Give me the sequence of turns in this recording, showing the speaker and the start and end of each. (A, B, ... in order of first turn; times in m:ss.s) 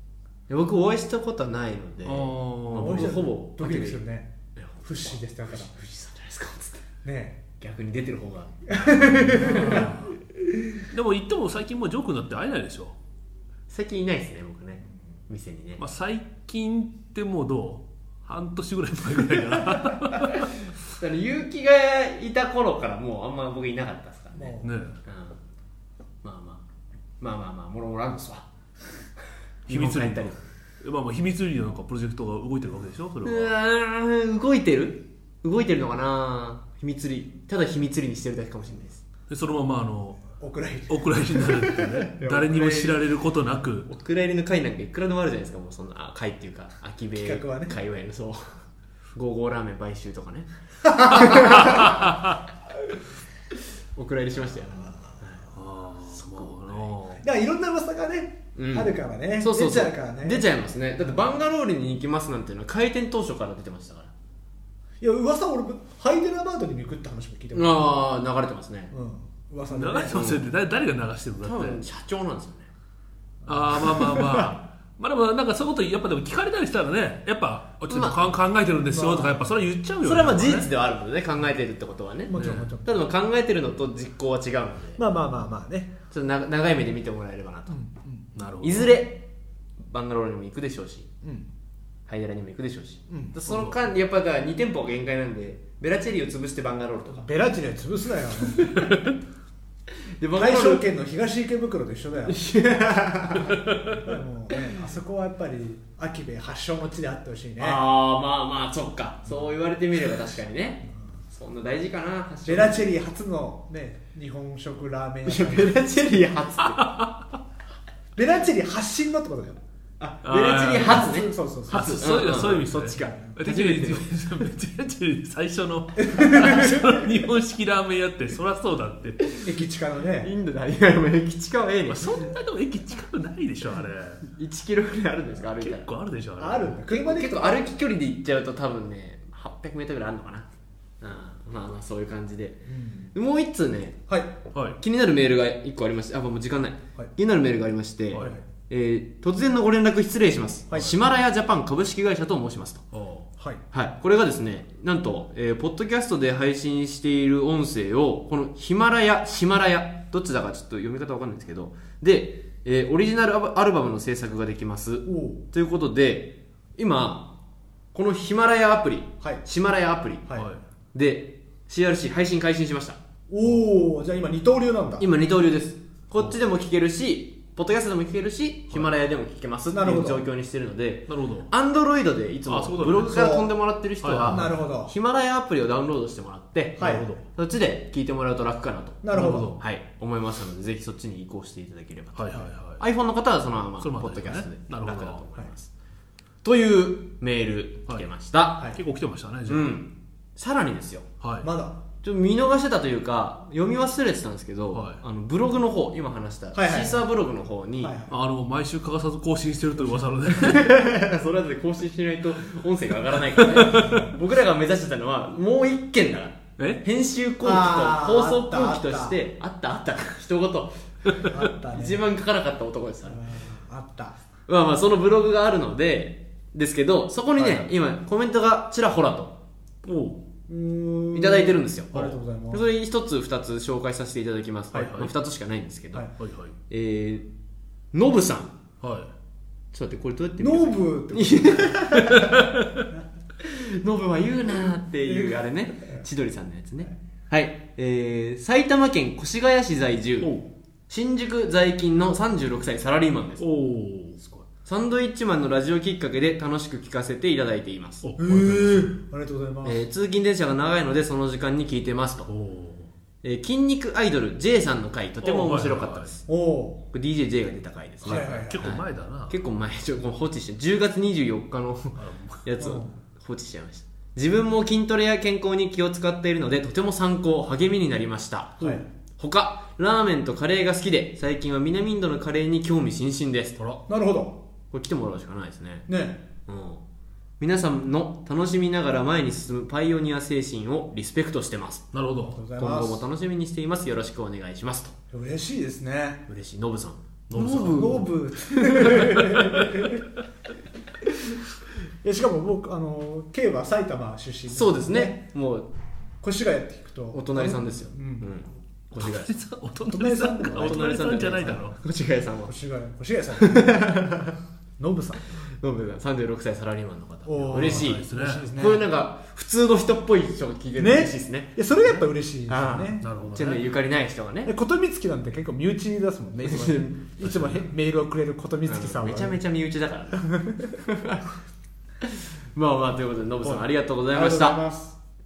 0:00.5-0:04.0 A
0:02.0-0:03.3 B
0:02.8-0:04.3 C
0:04.6-0:06.8 A
0:04.8-0:05.7 C
0:07.0-0:07.4 C
0:07.6-0:09.9 A
0:08.8-0:10.0 C
0:09.3-0:10.1 B
0:10.9-0:13.0 B
0:13.7-0:15.8 A
0:15.8-0:20.6 B
0:20.9-0:25.4 A
0:24.4-0:24.7 C
0:24.6-0:25.0 B
0:26.2-0:26.6 A
0:27.2-0:28.5 A
0:29.7-0:30.4 A
0:29.7-0:33.5 B
0:33.2-0:39.0 A
0:39.3-0:40.2 B
0:40.4-0:42.1 C
0:40.9-0:43.9 B
0:42.2-0:43.0 A
0:43.9-0:48.6 A
0:47.2-0:47.8 C
0:49.1-0:52.1 A
0:51.0-0:51.6 C
0:54.0-0:55.5 A
0:54.6-0:55.2 C
0:55.5-0:57.2 B
0:56.1-0:56.9 A
0:57.2-1:00.5 C
0:58.6-1:04.1 A
1:05.0-1:07.9 C
1:07.5-1:08.9 A
1:08.9-1:10.4 C
1:09.7-1:11.8 B
1:10.1-1:10.5 A
1:11.4-1:12.7 A
1:13.4-1:14.5 C
1:13.5-1:20.7 B
1:17.9-1:18.3 A
1:18.8-1:19.5 C
1:20.0-1:25.0 A
1:22.3-1:23.1 C
1:22.3-1:22.7 B
1:25.0-1:25.9 C
1:26.1-1:27.8 A
1:27.7-1:28.3 C
1:28.4-1:28.9 B
1:28.6-1:29.3 A
1:29.8-1:31.1 A
1:32.1-1:37.3 A
1:33.1-1:33.4 C
1:33.5-1:33.8 B
1:37.1-1:38.8 C
1:38.6-1:38.9 A
1:38.8-1:39.1 B
1:40.2-1:40.9 A
1:40.4-1:42.4 C
1:42.3-1:43.7 A
1:43.5-1:44.0 B
1:43.9-1:47.8 C
1:47.6-1:52.9 A
1:52.4-1:55.9 C
1:55.2-1:57.0 A
1:56.8-1:57.2 B
1:58.1-2:00.1 C
2:00.0-2:04.1 A
2:00.2-2:01.1 B
2:00.7-2:03.3 C
2:01.7-2:09.2 B
2:06.0-2:07.0 C
2:09.2-2:09.5 A
2:09.4-2:10.3 C
2:10.2-2:12.3 A
2:11.9-2:14.2 B
2:14.2-2:15.9 A
2:15.5-2:16.8 B
2:16.4-2:17.6 C
2:16.9-2:20.5 A
2:21.0-2:24.1 A
2:22.7-2:23.1 C
2:24.8-2:32.8 A
2:28.2-2:28.4 C
2:32.9-2:33.3 B
2:33.7-2:47.4 A
2:45.1-2:45.5 C
2:47.9-2:50.3 A
2:50.3-2:50.6 C
2:50.9-2:53.0 A
2:53.3-2:55.1 C
2:55.0-3:15.7 A
2:59.7-3:00.2 C
3:01.1-3:01.5 B
3:02.5-3:03.4 B
3:03.1-3:03.5 C
3:04.0-3:04.5 B
3:04.2-3:04.9 C
3:06.8-3:07.1 C
3:06.8-3:07.2 B
3:09.0-3:09.6 C
3:09.1-3:09.6 B
3:12.1-3:12.8 B
3:13.8-3:15.2 B
3:16.4-3:18.8 A
3:18.6-3:19.8 B
3:19.5-3:21.1 A
3:21.2-3:21.5 B
3:21.4-3:21.8 C
3:22.0-3:28.0 A
3:24.7-3:25.0 B
3:26.5-3:27.1 C
3:27.8-3:28.1 C
3:28.1-3:30.7 B
3:30.4-3:43.2 A
3:33.4-3:34.0 B
3:33.6-3:34.1 C
3:36.6-3:36.8 B
3:37.4-3:39.2 C
3:41.2-3:42.1 C
3:43.1-3:44.2 C
3:44.5-3:49.4 A
3:47.4-3:47.7 C
3:49.8-3:50.2 B
3:50.5-3:52.6 C
3:51.1-3:52.0 A
3:51.9-3:52.2 B
3:52.5-3:56.1 A
3:54.7-3:55.1 B
3:56.2-3:56.6 B
3:56.7-3:57.3 A
3:57.9-3:58.6 A
3:58.8-3:59.1 B
3:59.7-4:02.4 A
4:00.4-4:02.3 C
4:02.1-4:02.8 B
4:03.4-4:10.4 A
4:05.1-4:06.0 C
4:10.2-4:10.5 B
4:10.9-4:13.4 A
4:13.4-4:14.4 B
4:14.6-4:18.0 A
4:18.0-4:18.9 B
4:18.2-4:19.8 C
4:19.6-4:22.3 A
4:22.2-4:22.9 B
4:23.2-4:26.2 A
4:25.2-4:26.1 B
4:26.3-4:26.8 C
4:26.9-4:43.6 A
4:28.0-4:29.4 B
4:28.0-4:28.7 C
4:32.0-4:32.4 B
4:32.6-4:32.9 C
4:38.6-4:38.8 C
4:43.9-4:44.4 C
4:44.7-4:45.9 A
4:45.9-4:46.2 C
4:46.5-4:46.8 A
4:47.4-4:51.9 A
4:51.9-4:52.4 B
4:52.2-4:53.1 C
4:52.6-4:55.0 A
4:55.1-4:56.2 C
4:56.3-4:59.9 A
4:57.3-4:58.1 B
4:57.8-5:00.0 C
5:02.0-5:05.2 C
5:04.5-5:05.7 A
5:06.2-5:08.3 C
5:07.1-5:09.4 A
5:09.0-5:11.8 B
5:09.8-5:11.8 C
5:10.5-5:12.5 A
5:12.5-5:13.8 C
5:13.4-5:14.4 A
5:14.8-5:15.2 C
5:15.6-5:21.5 A
5:17.2-5:18.9 C
5:17.6-5:18.5 B
5:20.8-5:23.2 C
5:22.5-5:24.5 A
5:23.0-5:23.7 B
5:24.5-5:29.4 C
5:26.4-5:27.6 A
5:28.6-5:31.3 A
5:30.2-5:30.7 C
5:32.0-5:34.6 A
5:33.4-5:35.0 C